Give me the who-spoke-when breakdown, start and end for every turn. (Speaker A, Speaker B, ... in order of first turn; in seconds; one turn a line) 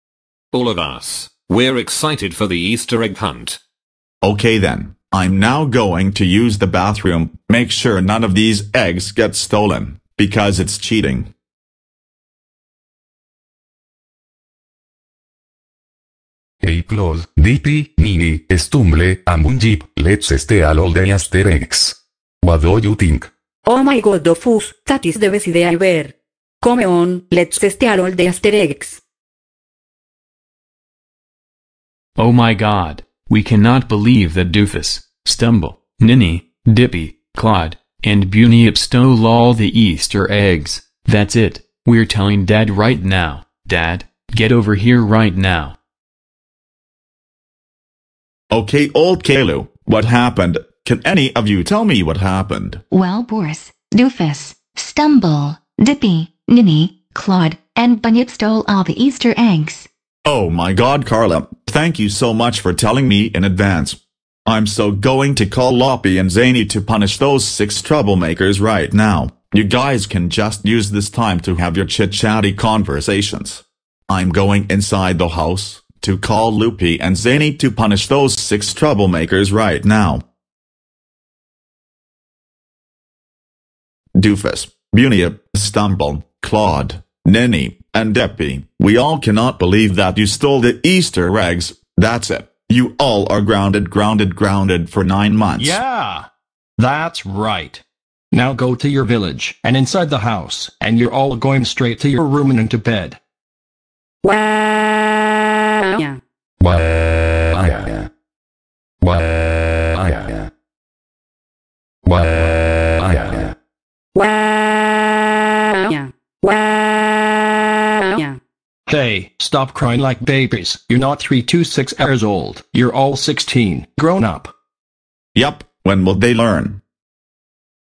Speaker A: 0.5-3.6
Speaker B: 4.2-11.3
Speaker C: 16.6-23.3
Speaker D: 23.6-29.0
Speaker E: 32.2-45.8
Speaker B: 48.5-52.8
Speaker F: 52.9-59.9
Speaker B: 60.2-80.2
Speaker B: 84.2-95.8
Speaker G: 95.6-96.3
Speaker G: 96.8-97.8
Speaker G: 98.3-103.2
Speaker D: 104.2-106.2
Speaker C: 106.6-108.1
Speaker C: 109.0-110.5
Speaker C: 112.0-113.5
Speaker D: 114.1-118.3
Speaker G: 118.9-124.5
Speaker B: 125.3-126.8